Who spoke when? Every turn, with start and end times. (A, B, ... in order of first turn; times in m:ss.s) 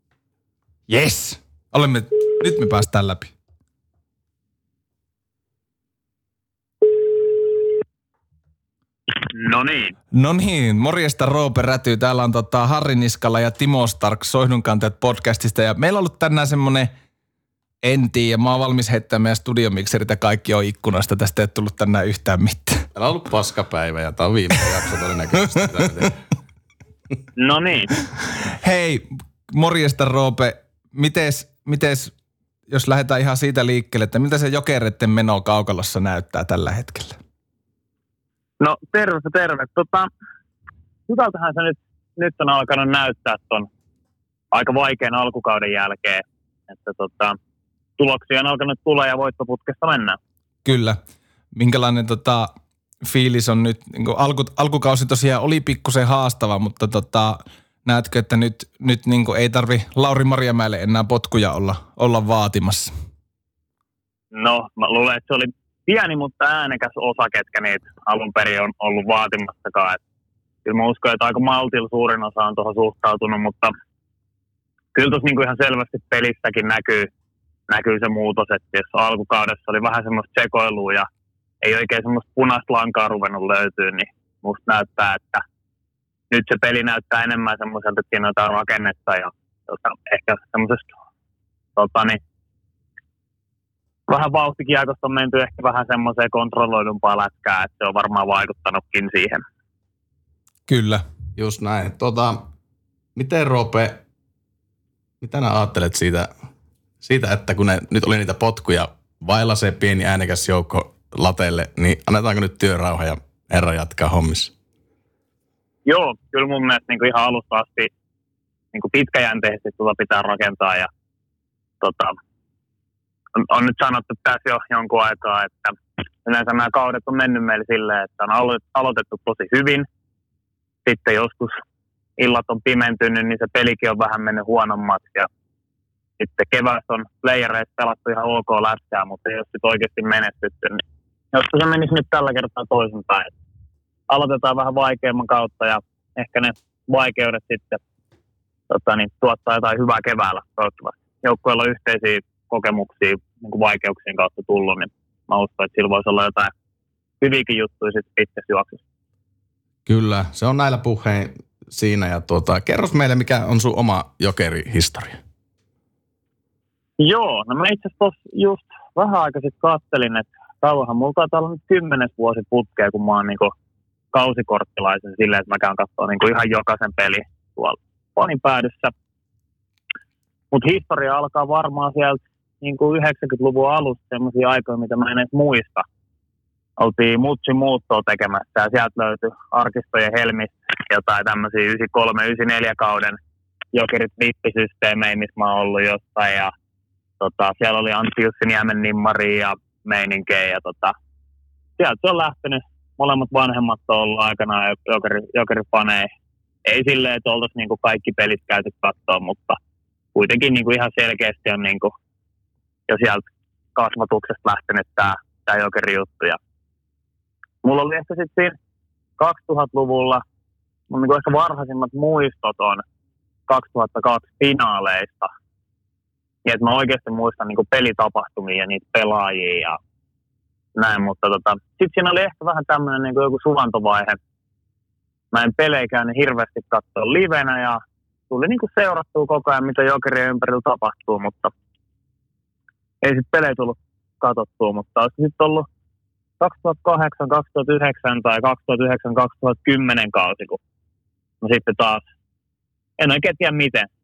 0:00.9-0:03.3 A
0:09.2-0:09.9 B
0:10.1-0:16.9 A
0:17.8-0:22.9 A
0:22.9-0:26.2 C
0:25.5-0:26.1 A
0:27.4-0:27.9 B
0:28.6-0:32.1 A
0:32.7-0:37.2 A
0:38.6-0:40.1 B
0:41.1-0:43.7 B
0:44.5-0:47.4 B
0:48.0-0:50.2 B
0:50.6-0:51.0 A
0:51.5-0:52.5 A
0:53.0-1:02.9 A
1:04.3-1:10.0 B
1:10.6-1:13.7 B
1:14.9-1:17.1 B
1:17.7-1:21.1 B
1:21.6-1:25.4 B
1:26.3-1:30.9 B
1:31.8-1:32.2 B
1:34.1-1:39.4 B
1:40.7-1:41.0 A
1:41.4-1:42.4 C
1:43.2-1:44.0 C
1:45.2-1:46.3 C
1:47.0-1:54.5 C
1:55.8-1:57.9 B
1:58.7-2:00.9 B
2:01.8-2:02.2 B
2:03.4-2:09.9 B
2:10.8-2:11.6 B
2:12.2-2:15.3 B
2:16.2-2:23.3 B
2:24.1-2:27.8 B
2:28.7-2:36.5 B
2:37.2-2:38.8 B
2:39.8-2:45.2 C
2:47.0-2:53.5 B
2:54.1-2:58.9 B
3:00.5-3:05.8 B
3:06.8-3:13.2 B
3:13.7-3:16.5 B
3:17.2-3:20.9 B
3:21.8-3:26.1 B
3:26.6-3:29.6 B
3:30.1-3:31.9 B
3:32.9-3:36.4 B
3:37.6-3:38.6 B
3:39.2-3:40.2 B
3:40.9-3:42.8 B
3:43.5-3:45.3 B
3:46.4-3:49.8 B
3:50.8-3:54.2 B
3:55.3-4:01.5 B
4:03.0-4:05.6 B
4:06.4-4:10.6 B
4:11.4-4:12.0 B
4:13.0-4:13.9 B